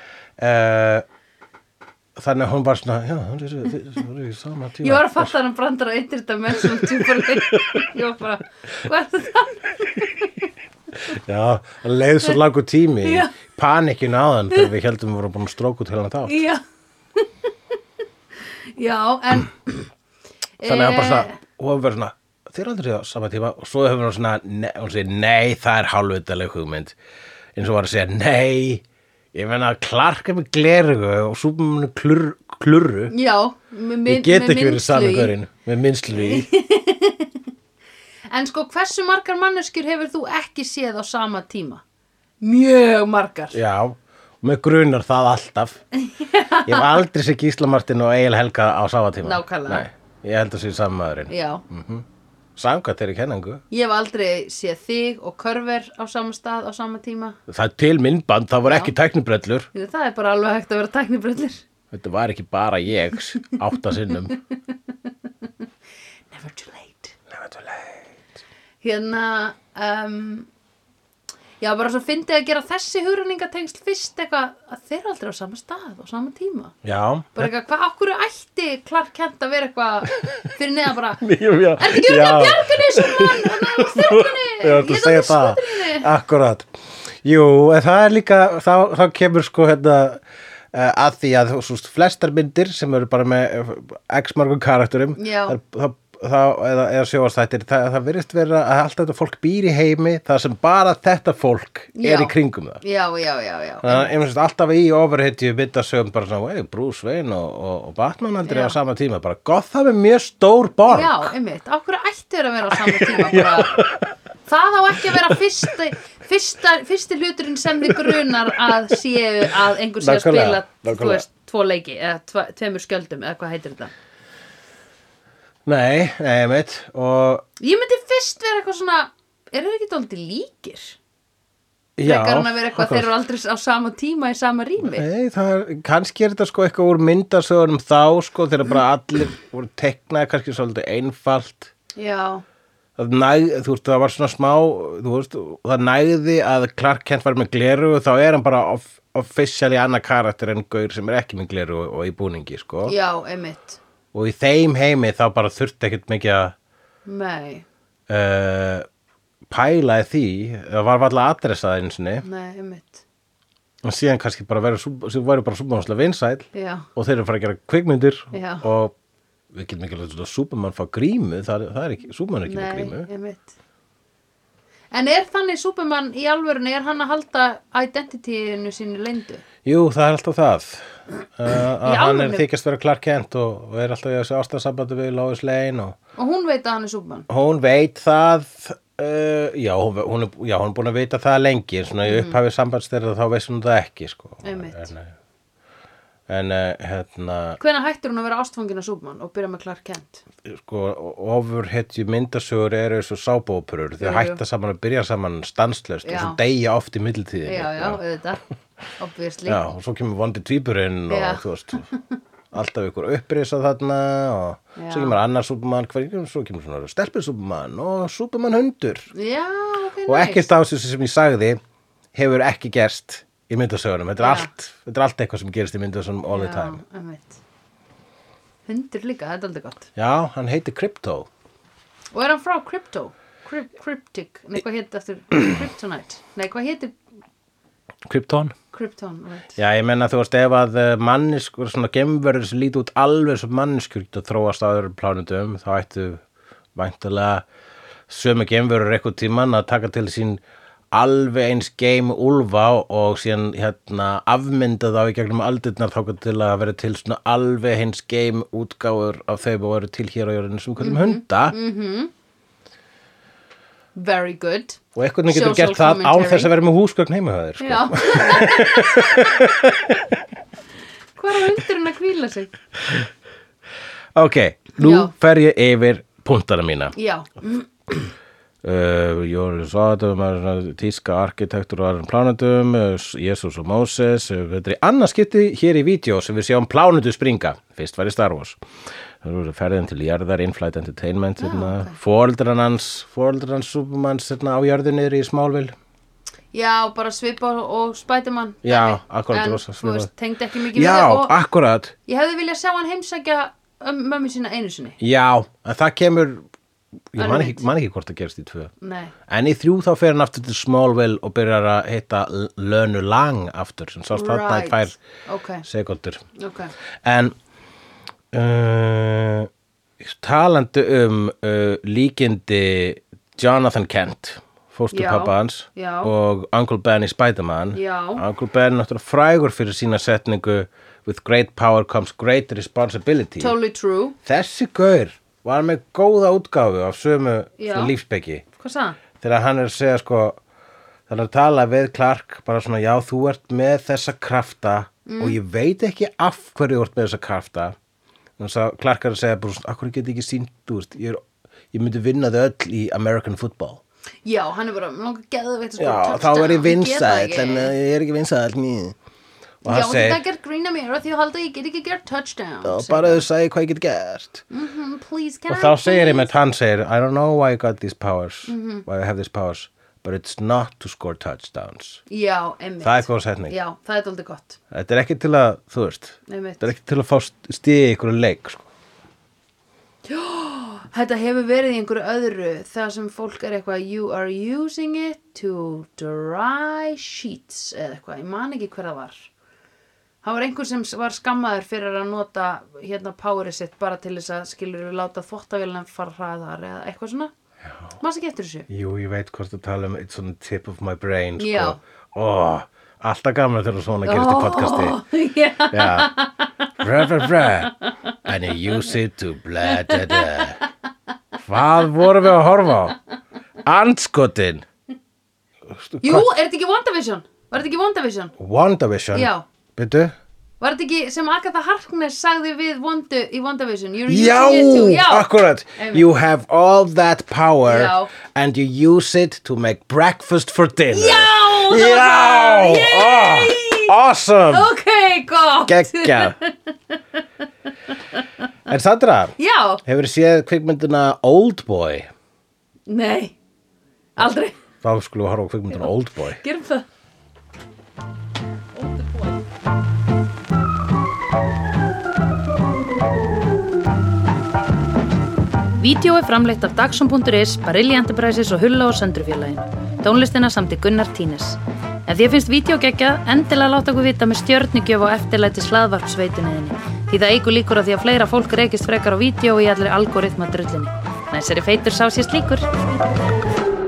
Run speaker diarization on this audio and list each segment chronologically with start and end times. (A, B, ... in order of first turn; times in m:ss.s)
0:00.4-0:01.0 A
0:02.2-0:05.3 A
0:04.8-0:10.5 B
0:06.6-0:07.9 A
0:11.0-0:16.4 A
0:13.0-0:13.4 B
0:16.3-0:16.6 B
0:18.6-0:19.9 B
0:20.6-0:21.4 B
0:20.6-0:27.0 A
0:27.6-0:33.1 A
0:33.1-0:35.3 B
0:34.1-0:36.5 A
0:36.2-0:37.3 B
0:38.3-0:41.8 B
0:42.4-0:43.6 B
0:43.5-0:45.8 A
0:46.0-0:47.0 B
0:46.7-0:52.0 A
0:49.2-0:49.9 B
0:51.3-0:51.6 B
0:52.6-0:53.6 A
0:53.7-0:57.4 B
0:57.5-0:59.7 A
0:58.6-0:58.9 B
0:59.7-1:01.6 B
1:01.9-1:04.4 A
1:05.0-1:05.5 B
1:06.3-1:07.1 B
1:07.3-1:08.0 A
1:08.8-1:10.5 B
1:11.6-1:16.8 B
1:16.8-1:17.5 A
1:17.4-1:21.2 B
1:20.2-1:20.5 A
1:21.2-1:26.7 A
1:21.8-1:26.1 B
1:27.2-1:30.2 A
1:30.7-1:42.8 A
1:35.2-1:35.6 B
1:42.0-1:44.1 B
1:43.8-1:51.3 A
1:48.4-1:48.8 B
1:50.9-1:53.8 B
1:52.8-1:54.1 A
1:54.5-2:03.9 B
1:55.0-1:55.4 A
1:57.9-1:58.3 A
2:00.0-2:01.2 A
2:05.7-2:07.5 A
2:07.6-2:11.0 B
2:12.0-2:13.1 A
2:12.0-2:15.1 B
2:14.8-2:21.7 A
2:22.0-2:22.4 B
2:23.0-2:33.0 A
2:32.8-2:33.8 B
2:34.1-2:36.6 A
2:37.1-2:37.7 B
2:38.1-2:38.9 A
2:39.5-2:42.2 A
2:42.2-2:43.0 B
2:43.8-2:48.9 A
2:46.5-2:46.9 B
2:48.3-2:48.6 B
2:49.5-2:53.1 A
2:52.5-2:53.5 B
2:54.9-2:59.4 B
2:59.6-3:06.0 A
3:01.8-3:02.5 B
3:06.2-3:07.3 B
3:07.3-3:15.1 A
3:12.0-3:12.4 B
3:14.4-3:14.9 B
3:16.3-3:17.6 A
3:17.6-3:20.2 B
3:20.4-3:28.0 A
3:24.0-3:24.4 B
3:26.0-3:26.4 B
3:27.4-3:28.4 B
3:29.0-3:29.7 B
3:29.5-3:31.9 A
3:31.1-3:32.0 B
3:32.5-3:39.1 A
3:34.8-3:35.2 B
3:39.1-3:40.5 B
3:40.1-3:41.6 A
3:42.2-3:46.8 A
3:44.2-3:44.5 B
3:46.3-3:47.4 B
3:48.7-3:49.9 B
3:50.0-3:51.3 A
3:52.1-3:57.0 B
3:58.1-3:58.5 A
3:58.7-3:59.6 B
3:59.6-4:06.2 A
4:06.8-4:07.4 A
4:08.1-4:10.4 A
4:10.9-4:21.6 A
4:20.8-4:22.1 B
4:24.0-4:26.5 B
4:25.0-4:30.2 A
4:27.6-4:29.2 B
4:31.2-4:32.5 B
4:32.8-4:33.1 A
4:34.2-4:37.0 A
4:34.8-4:35.1 B
4:37.0-4:37.7 B
4:38.6-4:48.6 A
4:49.2-4:55.8 A
4:51.4-4:52.0 B
4:56.5-5:01.4 B
4:58.6-5:00.1 A
5:00.7-5:01.9 A
5:02.1-5:05.0 B
5:05.0-5:06.4 A
5:07.1-5:08.7 A
5:07.2-5:07.7 B
5:08.8-5:09.1 B
5:09.3-5:15.0 A
5:14.1-5:15.7 B
5:15.6-5:16.2 A
5:16.4-5:16.7 B
5:17.0-5:17.4 A
5:18.3-5:19.5 A
5:20.0-5:33.6 A
5:24.9-5:26.1 B
5:27.8-5:28.2 B
5:33.4-5:34.2 B
5:34.2-5:38.4 A
5:37.6-5:37.9 B
5:38.6-5:39.0 B
5:39.2-5:40.4 A
5:41.1-5:47.8 A
5:45.1-5:45.4 B
5:48.4-5:53.8 A
5:54.2-5:57.7 B
5:55.8-5:59.0 A
5:59.6-6:00.2 A
5:59.6-6:03.2 B
6:02.6-6:04.4 A
6:04.5-6:06.3 B
6:05.5-6:12.0 A
6:08.5-6:08.8 B
6:12.1-6:14.6 B
6:12.8-6:13.6 A
6:14.7-6:18.7 A
6:16.3-6:16.7 B
6:20.1-6:29.3 B
6:30.2-6:37.3 B
6:38.0-6:38.7 B
6:38.7-6:45.0 A
6:41.4-6:41.8 B
6:44.0-6:46.5 B
6:45.7-6:46.1 A
6:46.8-6:47.7 A
6:48.2-6:50.6 A
6:49.7-6:50.6 B
6:51.4-6:53.0 A
6:53.6-6:54.6 A
6:55.7-6:56.3 A
6:56.0-6:58.3 B
6:58.4-7:00.1 A
6:59.1-6:59.4 B
7:00.6-7:06.1 B
7:04.1-7:14.7 A
7:07.7-7:08.1 B
7:10.9-7:13.9 B
7:14.5-7:16.7 B
7:15.7-7:16.4 A
7:18.7-7:22.1 A
7:19.4-7:19.8 B
7:22.9-7:23.4 B
7:24.2-7:24.6 B
7:24.8-7:26.4 A
7:26.4-7:26.8 B
7:28.7-7:29.5 B
7:35.8-7:52.6 B